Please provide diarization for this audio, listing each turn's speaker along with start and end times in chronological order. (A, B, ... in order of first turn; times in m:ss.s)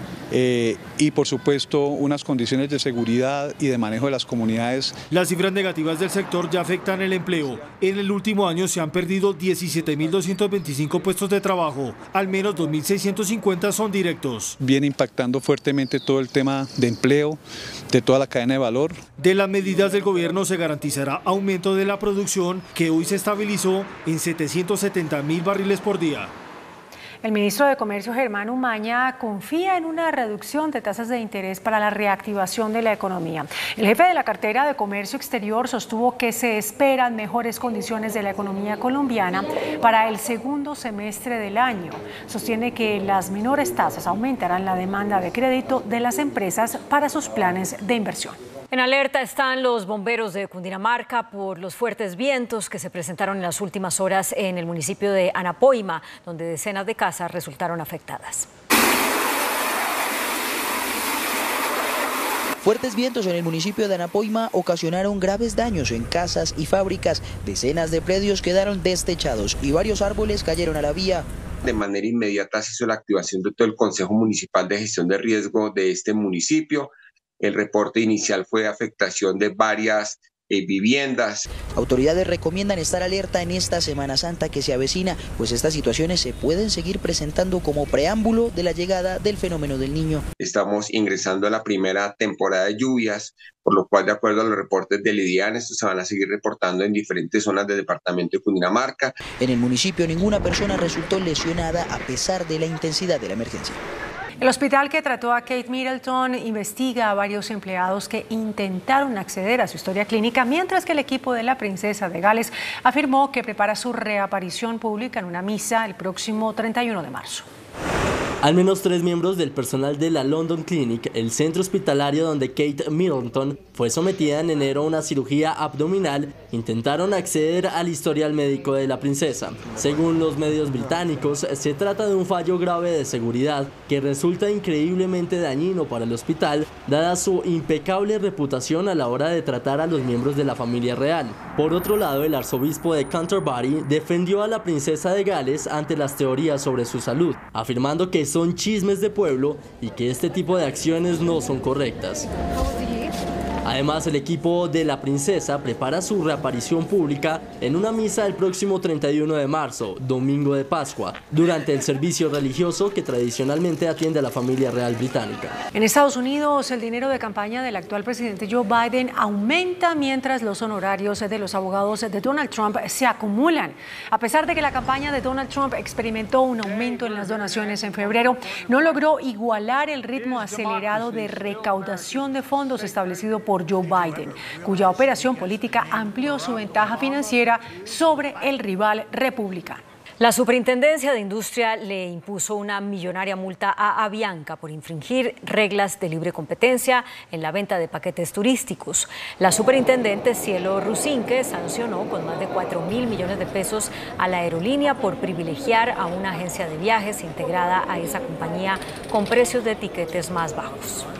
0:00.3-0:05.0 A
0:05.1-0:14.6 B
0:14.6-0:17.4 A
0:17.9-0:19.0 A
0:19.2-0:26.3 B
0:27.2-0:48.4 C
0:48.7-0:58.5 D
1:02.6-1:11.2 E
1:11.6-1:21.4 F
1:21.6-1:30.2 E
1:30.4-1:39.2 F
1:39.3-1:43.8 E
1:44.4-1:57.5 C
1:58.4-2:32.3 G
2:33.6-2:45.6 G
2:45.7-3:09.8 C
3:10.2-3:31.0 D